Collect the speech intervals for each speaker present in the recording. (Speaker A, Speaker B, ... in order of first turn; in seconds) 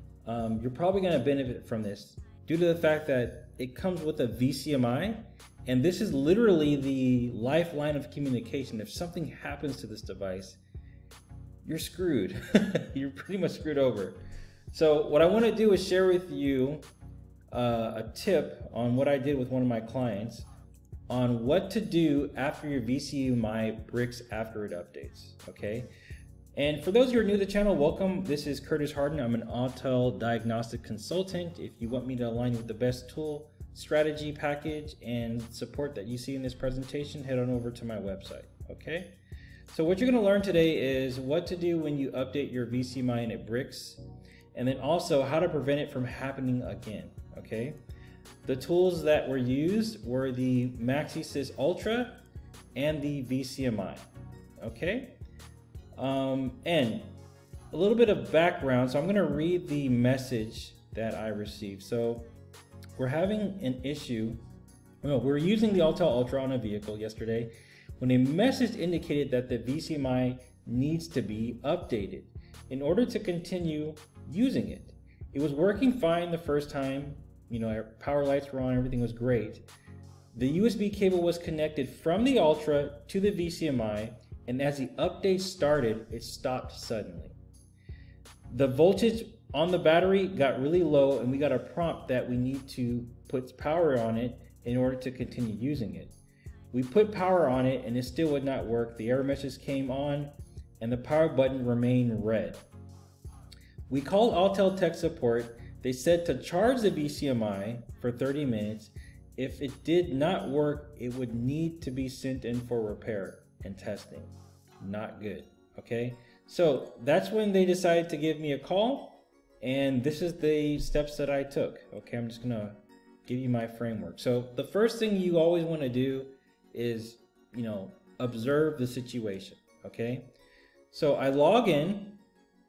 Speaker A: 0.2-10.6, 11.6-14.2, 14.7-16.8, 17.5-20.5, 21.1-25.9, 26.6-39.2, 39.7-44.0, 44.5-47.8, 48.5-52.2, 52.8-54.1, 54.6-55.2, 56.0-57.2, 57.7-62.3, 63.0-64.4, 65.0-79.7, 80.3-87.4, 88.5-96.2, 96.7-102.6, 103.9-130.3, 130.9-132.2